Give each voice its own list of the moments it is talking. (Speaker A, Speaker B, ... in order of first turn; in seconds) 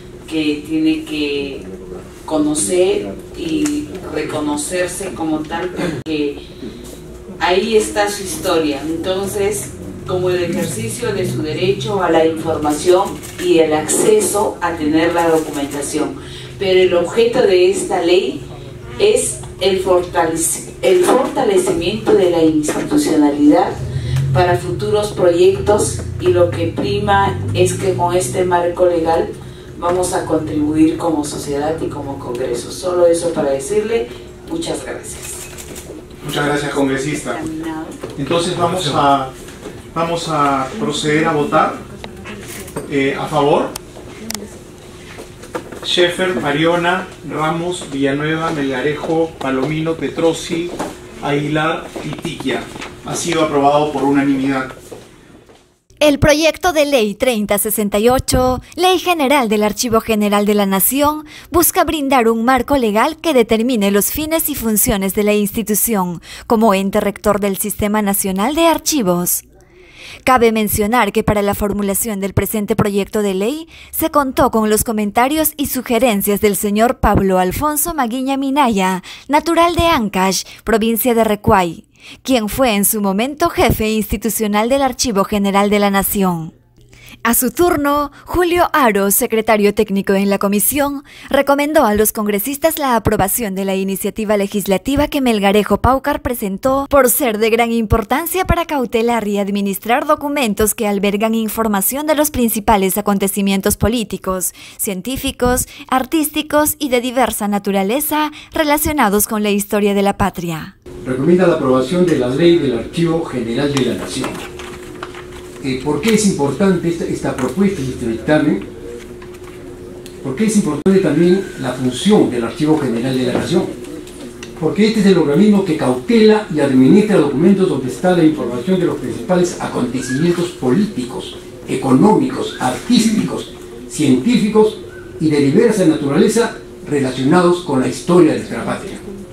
Speaker A: 0.2-1.6, 2.2-6.4, 7.4-18.4, 19.0-23.7, 24.3-35.4, 37.2-38.0
Speaker B: 36.2-37.4, 38.1-39.3, 39.9-41.8, 42.8-43.7, 45.8-54.7
Speaker C: 56.0-69.4, 70.2-86.5, 87.2-110.7
Speaker D: 111.0-114.5, 115.6-118.6, 120.2-123.7, 124.6-139.0